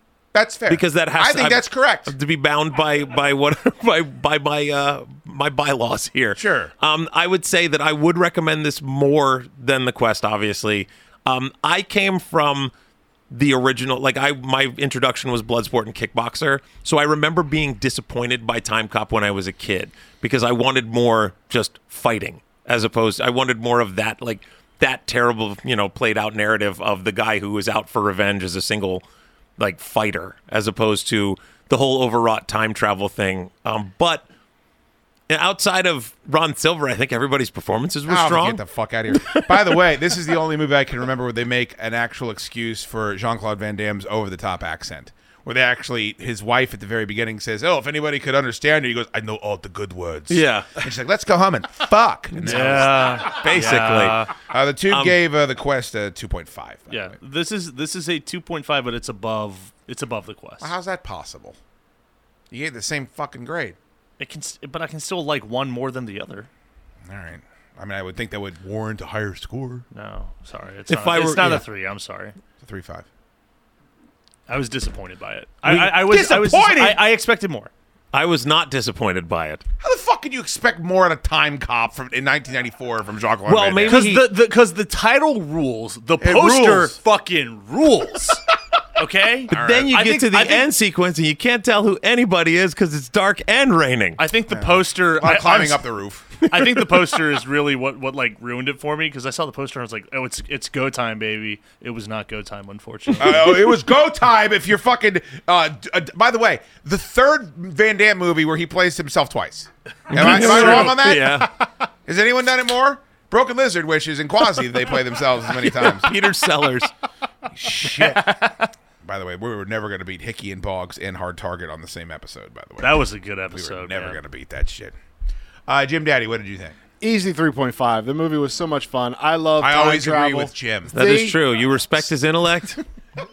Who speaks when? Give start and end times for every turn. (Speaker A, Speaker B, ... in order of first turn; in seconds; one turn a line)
Speaker A: 0.3-2.1
Speaker B: 0.7-12.7
Speaker A: 6.3-6.7
Speaker B: 13.3-29.0
Speaker B: 29.6-34.2
Speaker B: 35.3-38.6
Speaker A: 38.1-53.3
Speaker B: 39.1-39.8
Speaker B: 50.3-50.7
Speaker B: 52.4-54.1
Speaker C: 52.4-54.4
Speaker A: 54.5-57.2
Speaker B: 54.9-55.2
Speaker C: 56.9-60.7
Speaker A: 60.6-61.6
Speaker A: 62.5-63.8
Speaker C: 64.2-66.5
Speaker A: 67.0-69.8
Speaker C: 69.9-72.3
Speaker B: 70.9-71.6
Speaker A: 72.6-73.1
Speaker C: 74.5-77.7
Speaker B: 75.7-75.9
Speaker A: 75.8-77.0
Speaker B: 78.1-79.6
Speaker A: 79.8-84.0
Speaker B: 83.5-84.3
Speaker C: 83.9-88.4
Speaker A: 86.2-87.0
Speaker C: 89.0-90.7
Speaker A: 89.5-89.9
Speaker B: 89.5-94.2
Speaker C: 94.2-95.8
Speaker A: 94.5-96.5
Speaker C: 96.4-103.7
Speaker A: 103.2-111.5
Speaker B: 110.1-111.5
Speaker C: 110.1-111.0
Speaker A: 112.0-116.2
Speaker B: 115.6-116.9
Speaker A: 117.5-124.9
Speaker C: 118.0-118.7
Speaker C: 122.8-124.2
Speaker A: 125.7-126.8
Speaker D: 127.0-131.4
Speaker A: 129.6-130.9
Speaker B: 130.9-132.8